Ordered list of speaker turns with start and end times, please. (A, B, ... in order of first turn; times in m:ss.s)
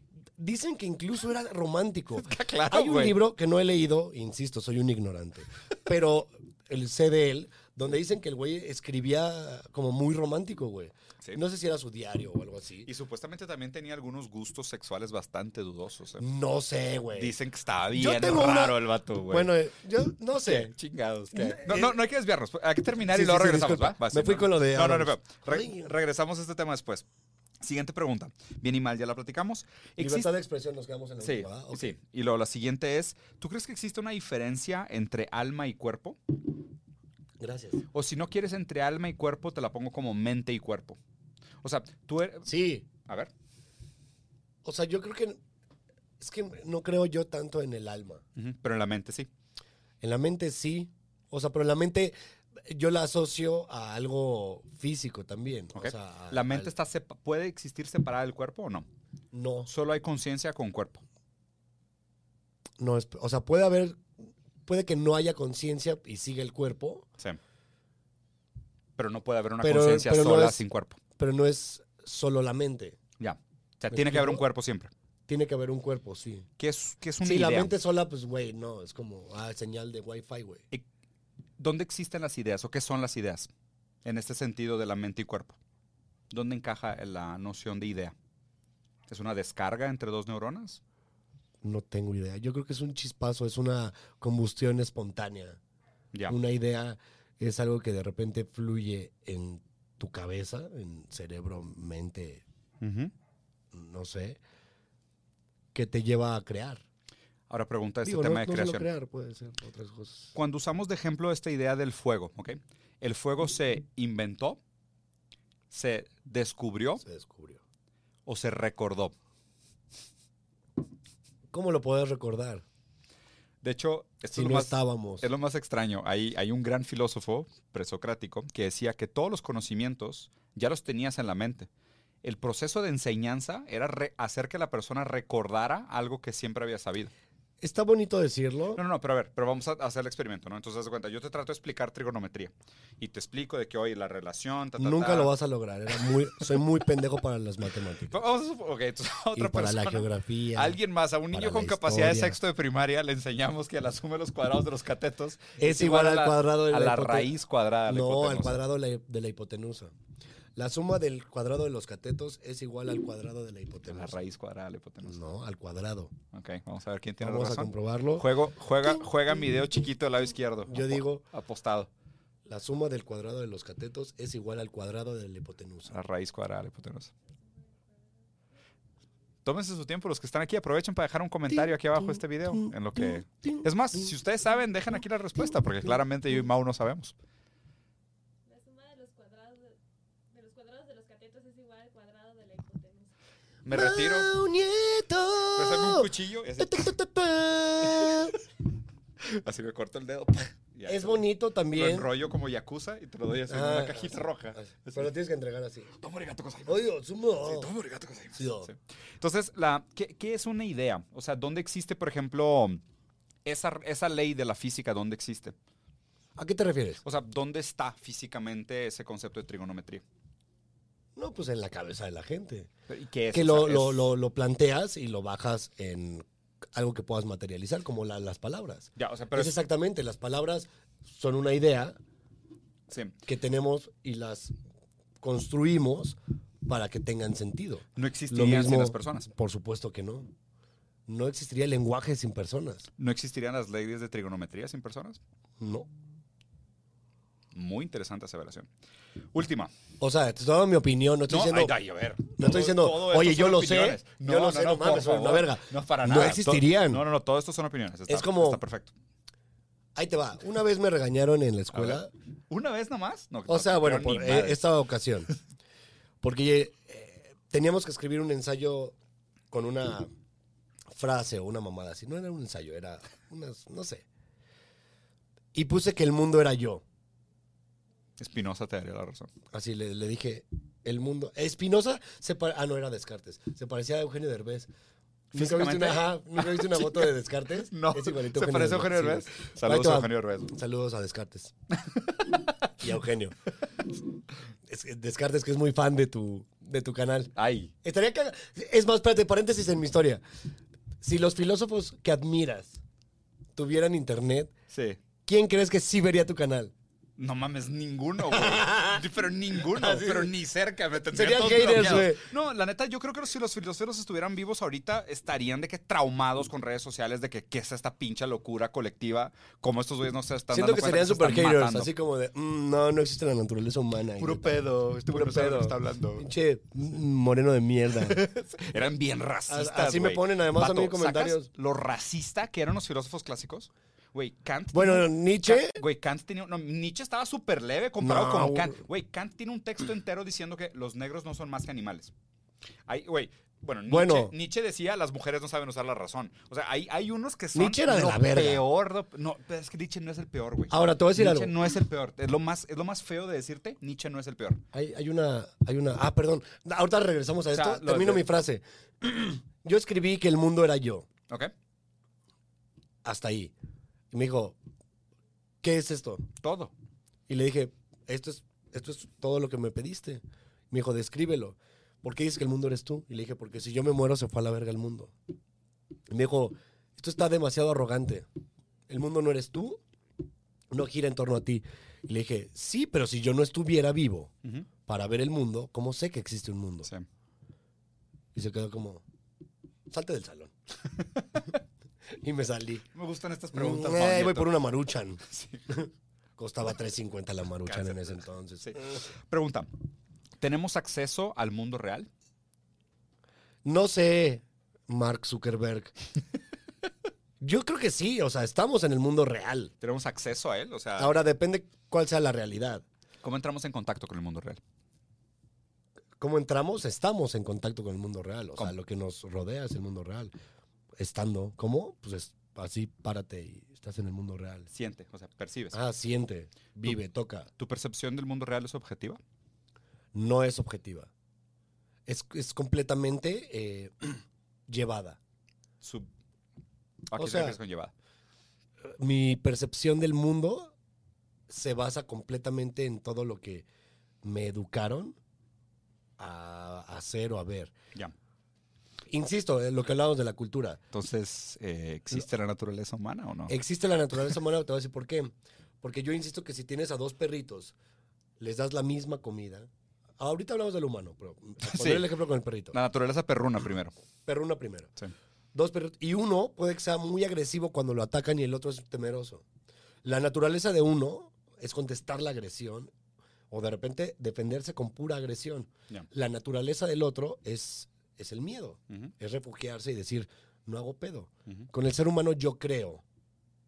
0:00.4-0:12.9 A
0:02.2-0:03.2 B
0:12.8-0:16.2 B
0:16.2-0:17.3 A
0:17.1-0:19.5 B
0:17.9-0:20.7 A
0:20.4-0:27.0 B
0:21.3-0:21.9 A
0:23.1-0:25.9 A
0:27.6-0:30.3 B
0:30.0-0:31.9 A
0:31.2-0:36.2 B
0:37.4-0:37.8 A
0:37.9-0:41.0 B
0:41.6-0:42.5 B
0:42.4-0:42.9 A
0:43.0-0:43.3 B
0:44.6-0:45.4 A
0:46.2-0:48.2 A
0:48.4-0:49.3 B
0:50.0-0:52.1 A
0:52.6-0:56.7 A
0:55.7-0:58.9 B
0:59.3-0:59.7 A
0:59.7-1:01.0 B
1:02.8-1:04.1 A
1:04.6-1:07.1 A
1:09.0-1:11.0 B
1:09.6-1:10.6 A
1:11.2-1:13.0 A
1:13.2-1:14.9 B
1:13.9-1:14.4 A
1:15.3-1:16.5 A
1:16.6-1:17.7 B
1:17.2-1:20.6 A
1:21.6-1:23.5 B
1:24.0-1:25.6 B
1:26.3-1:28.1 B
1:29.1-1:30.8 B
1:31.6-1:35.6 A
1:36.3-1:42.4 A
1:42.8-1:43.1 B
1:43.7-1:44.4 A
1:45.7-1:46.8 A
1:47.5-1:48.9 B
1:48.0-1:50.3 A
1:50.3-1:54.6 B
1:55.7-1:57.0 B
1:57.0-1:57.6 A
1:58.2-1:59.1 B
2:01.5-2:02.6 A
2:03.6-2:11.7 B
2:04.3-2:05.3 A
2:12.2-2:17.1 B
2:17.6-2:18.8 A
2:18.8-2:25.3 B
2:24.8-2:28.2 A
2:26.0-2:26.4 B
2:28.1-2:38.6 B
2:29.3-2:30.8 A
2:31.3-2:32.4 A
2:35.6-2:37.3 A
2:37.9-2:39.9 A
2:40.6-2:44.2 A
2:43.9-2:45.2 B
2:45.0-2:46.1 A
2:46.3-2:51.9 B
2:47.2-2:48.3 A
2:50.7-2:51.2 A
2:52.4-2:55.9 A
2:55.9-2:57.1 B
2:57.4-2:58.0 C
2:59.4-3:07.1 B
3:01.5-3:04.1 A
3:08.5-3:09.8 C
3:10.3-3:13.1 C
3:13.6-3:14.3 B
3:13.7-3:18.4 A
3:15.5-3:16.9 B
3:17.9-3:18.4 B
3:19.2-3:25.1 B
3:20.8-3:22.1 A
3:23.5-3:25.9 A
3:26.0-3:26.8 B
3:26.6-3:27.7 A
3:27.4-3:32.8 B
3:28.3-3:28.7 A
3:33.4-3:35.6 B
3:36.4-3:37.0 A
3:37.0-3:40.0 B
3:41.2-3:42.7 A
3:42.9-3:44.0 B
3:43.3-3:52.0 A
3:49.0-3:49.5 B
3:52.9-3:53.1 B
3:53.2-3:54.5 A
3:55.2-4:00.3 A
3:58.0-3:59.3 B
4:01.1-4:02.9 A
4:03.0-4:05.2 B
4:05.6-4:05.9 A
4:07.5-4:08.7 B
4:09.3-4:09.7 B
4:10.0-4:11.7 A
4:11.3-4:18.9 B
4:12.3-4:17.0 A
4:18.1-4:18.6 A
4:20.0-4:22.1 A
4:21.7-4:24.6 B
4:23.5-4:25.3 A
4:26.2-4:29.0 A
4:29.5-4:30.1 A
4:30.9-4:34.0 A
4:35.5-4:36.8 A
4:38.2-4:39.3 B
4:39.5-4:44.7 A
4:45.3-4:47.1 B
4:45.3-4:51.5 A
4:47.7-4:50.5 B
4:52.0-4:52.3 B
4:52.8-4:53.4 A
4:54.7-5:00.2 A
4:57.4-4:57.7 B
5:01.0-5:02.8 A
5:03.6-5:04.5 A
5:04.7-5:05.0 B
5:05.2-5:06.7 A
5:07.2-5:21.9 B
5:08.3-5:09.0 A
5:09.6-5:10.3 A
5:11.1-5:12.3 A
5:20.5-5:24.6 A
5:24.2-5:26.3 B
5:25.1-5:28.2 A
5:27.9-5:42.1 B
5:29.5-5:31.5 A
5:34.7-5:35.8 A
5:38.0-5:38.8 A
5:42.9-5:54.6 B
5:43.9-5:44.3 A
5:47.5-5:48.6 A
5:50.7-5:51.5 A
5:54.7-6:01.1 A
5:57.5-5:58.2 B
6:03.0-6:03.5 A
6:04.1-6:04.6 A
6:05.6-6:06.3 A
6:06.4-6:06.7 B
6:07.3-6:15.1 A
6:16.1-6:18.2 A
6:18.9-6:19.8 A
6:20.7-6:24.3 A
6:24.8-6:26.9 A
6:28.3-6:29.0 A
6:29.9-6:30.5 A
6:32.2-6:32.8 A
6:32.9-6:34.6 B
6:33.5-6:38.8 A
6:35.2-6:35.6 B
6:37.6-6:39.7 B
6:40.4-6:42.1 B
6:43.6-6:45.9 A
6:47.4-6:49.7 A
6:49.8-6:51.1 B
6:51.0-6:52.8 A
6:53.2-6:54.6 B
6:56.2-7:00.3 A
7:01.0-7:04.7 A
7:04.7-7:05.8 B
7:05.7-7:07.5 A
7:07.6-7:09.2 B
7:10.1-7:11.1 A
7:12.1-7:15.2 A
7:15.8-7:16.1 B
7:17.1-7:17.9 B
7:17.1-7:17.6 A
7:18.9-7:20.7 A
7:21.5-7:23.6 A
7:24.2-7:25.2 A
7:26.2-7:27.7 A
7:29.1-7:30.8 A
7:30.9-7:33.5 B
7:33.5-7:37.7 A
7:38.4-7:42.8 A
7:41.6-7:42.1 B
7:42.7-7:43.9 B
7:44.2-7:44.9 A
7:45.5-7:49.4 A
7:50.0-7:52.9 A
7:53.5-8:03.0 A